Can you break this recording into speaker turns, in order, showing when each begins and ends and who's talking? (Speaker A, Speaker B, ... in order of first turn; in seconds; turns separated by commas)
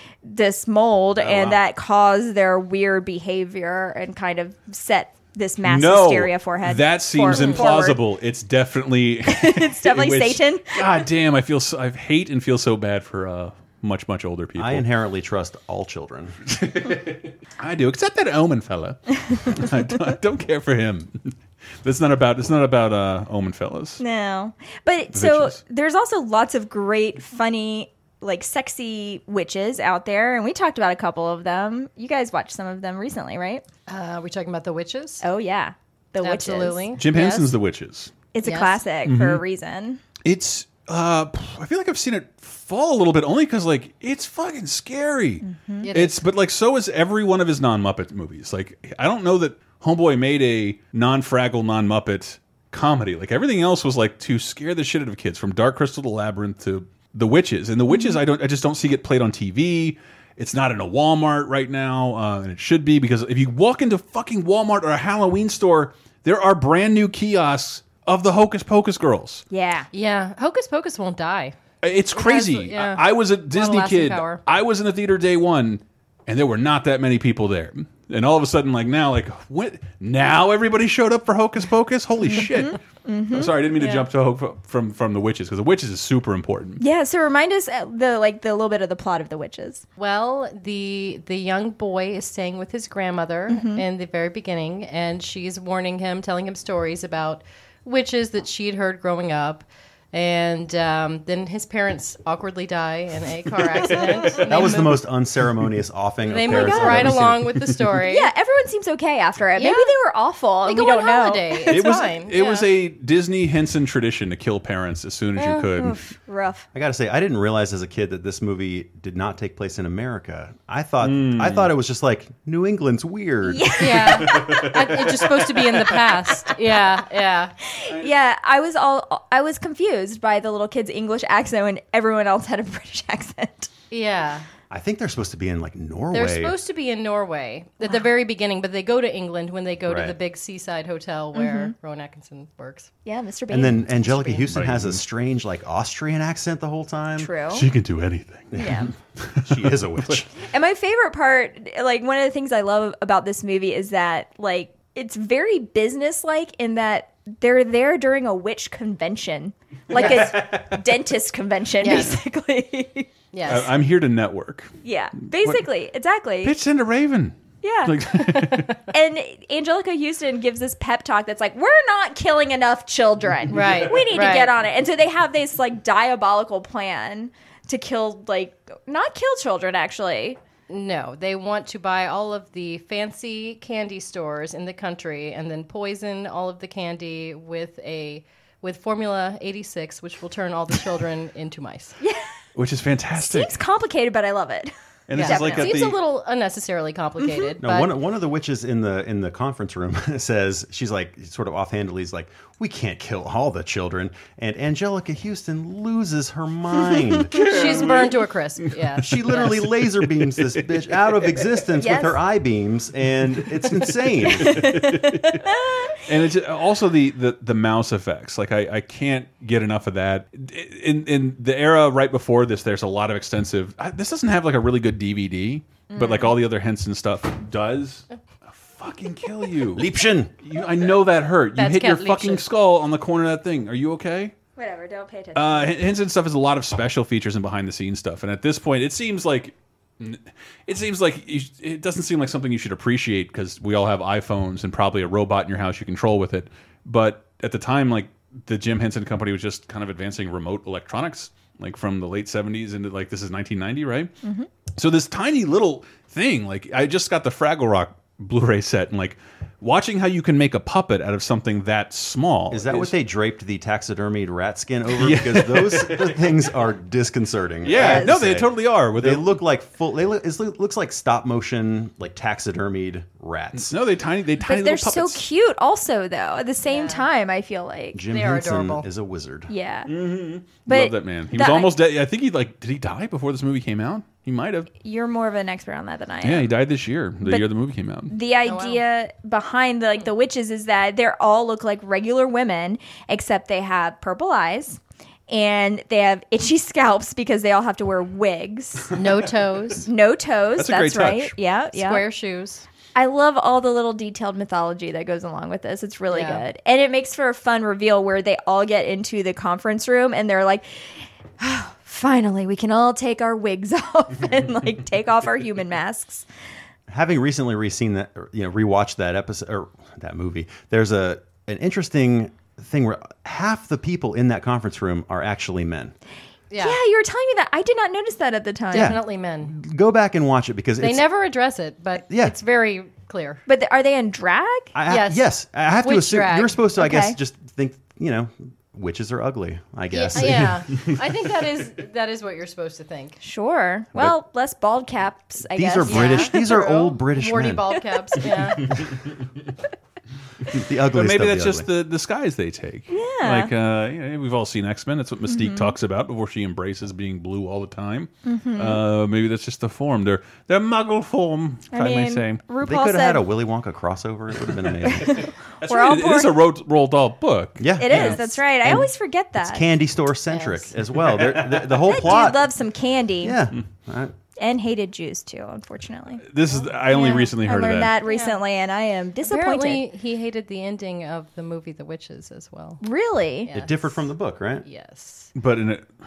Speaker A: 0.2-8.0, Speaker B: 1.2-1.6, Speaker C: 5.6-14.9, Speaker D: 7.3-7.7, Speaker A: 9.3-11.0, Speaker B: 14.6-16.4, Speaker C: 16.5-24.0, Speaker A: 24.0-33.6, Speaker C: 25.1-25.6, Speaker D: 33.9-35.2, Speaker A: 35.2-37.0, Speaker D: 36.2-37.5, Speaker C: 37.0-38.1, Speaker A: 38.3-40.0, Speaker D: 38.4-38.8, Speaker C: 39.0-39.4, Speaker C: 40.2-69.4, Speaker A: 45.4-45.9, Speaker D: 45.8-46.2, Speaker A: 57.9-58.2, Speaker A: 69.5-69.9, Speaker D: 69.9-71.6, Speaker C: 71.8-82.8, Speaker D: 72.1-74.4, Speaker A: 82.3-83.6, Speaker C: 83.3-86.8, Speaker D: 83.8-84.1, Speaker A: 86.8-89.8, Speaker D: 90.0-105.0, Speaker A: 93.5-93.8, Speaker B: 104.5-107.5, Speaker D: 106.2-108.3, Speaker A: 106.5-107.2, Speaker C: 107.5-107.8, Speaker A: 108.1-111.8, Speaker D: 109.6-110.0, Speaker D: 110.7-112.7, Speaker C: 111.7-116.0, Speaker D: 115.4-115.7, Speaker A: 115.8-116.7, Speaker B: 116.7-124.2, Speaker C: 121.0-121.7, Speaker A: 123.4-124.4, Speaker D: 123.8-127.5, Speaker C: 124.1-125.8, Speaker A: 127.7-133.7, Speaker D: 133.9-134.4, Speaker B: 134.7-136.6, Speaker D: 136.1-142.9, Speaker A: 137.8-138.1, Speaker B: 139.9-140.2, Speaker A: 141.3-141.7, Speaker A: 143.1-144.2, Speaker B: 143.5-147.3, Speaker D: 144.1-144.4, Speaker C: 144.5-145.0, Speaker A: 147.2-147.7, Speaker C: 147.5-148.7, Speaker B: 148.5-148.9, Speaker A: 148.6-148.9, Speaker C: 149.2-150.2, Speaker B: 149.4-150.3, Speaker A: 150.5-163.1, Speaker C: 159.9-160.8, Speaker D: 159.9-160.2, Speaker D: 161.8-162.2, Speaker D: 163.3-163.7, Speaker C: 163.4-164.7, Speaker A: 164.8-166.6, Speaker C: 166.4-168.8, Speaker A: 167.6-168.1, Speaker A: 168.9-180.4, Speaker D: 173.5-174.5, Speaker D: 180.7-192.0, Speaker C: 192.6-193.5, Speaker A: 193.2-195.8, Speaker C: 195.1-196.0, Speaker D: 195.2-197.9, Speaker A: 197.2-197.5, Speaker B: 197.6-207.3, Speaker D: 207.3-209.6, Speaker C: 207.3-208.2, Speaker B: 209.0-214.7, Speaker C: 210.3-211.0, Speaker A: 211.8-212.2, Speaker C: 214.4-215.4, Speaker A: 214.4-216.0, Speaker C: 216.1-229.9, Speaker A: 225.9-226.4, Speaker B: 229.8-230.3, Speaker C: 230.4-234.3, Speaker D: 231.6-232.4, Speaker A: 234.6-235.8, Speaker C: 235.3-254.1, Speaker A: 254.2-254.5, Speaker C: 254.8-262.9, Speaker B: 262.5-273.8, Speaker C: 264.9-266.4, Speaker C: 267.6-269.4, Speaker A: 267.7-268.1, Speaker C: 273.6-275.2, Speaker A: 274.4-278.0, Speaker D: 276.6-277.1, Speaker B: 277.9-279.5, Speaker D: 278.1-278.9, Speaker A: 279.5-279.9, Speaker C: 279.9-284.7, Speaker A: 280.5-281.8, Speaker A: 284.8-286.5, Speaker C: 286.2-288.1, Speaker A: 288.1-298.9, Speaker D: 288.4-288.8, Speaker D: 298.9-299.9, Speaker A: 299.9-302.1, Speaker C: 300.6-301.3, Speaker D: 301.7-302.6, Speaker A: 302.9-310.9, Speaker D: 306.1-306.4, Speaker A: 311.4-316.3, Speaker B: 316.9-325.9, Speaker D: 326.5-326.8, Speaker A: 326.6-329.0, Speaker D: 328.7-329.6, Speaker B: 328.7-331.1, Speaker D: 330.8-333.4, Speaker B: 332.1-332.4, Speaker A: 333.5-334.7, Speaker B: 334.8-340.6, Speaker D: 334.9-335.3, Speaker D: 335.8-336.6, Speaker A: 336.8-337.2, Speaker D: 339.9-343.2, Speaker A: 343.2-346.4, Speaker B: 345.5-347.7, Speaker D: 345.8-348.8, Speaker A: 347.8-348.1, Speaker C: 348.7-349.1, Speaker B: 350.5-351.7, Speaker C: 350.9-362.4, Speaker A: 352.9-353.5, Speaker A: 355.3-355.8, Speaker A: 358.2-358.8, Speaker A: 361.7-363.3, Speaker B: 362.6-365.3, Speaker A: 364.9-366.4, Speaker C: 365.6-368.2, Speaker B: 367.6-368.9, Speaker A: 367.8-369.6, Speaker B: 369.4-372.5, Speaker D: 370.3-370.7, Speaker C: 371.3-371.8, Speaker A: 371.9-373.4, Speaker B: 373.2-374.1, Speaker A: 374.4-379.9, Speaker C: 376.2-377.9, Speaker D: 378.1-378.4, Speaker D: 379.2-382.8, Speaker A: 382.8-383.5, Speaker D: 383.4-384.1, Speaker B: 383.5-384.7, Speaker D: 384.6-385.3, Speaker C: 385.4-385.9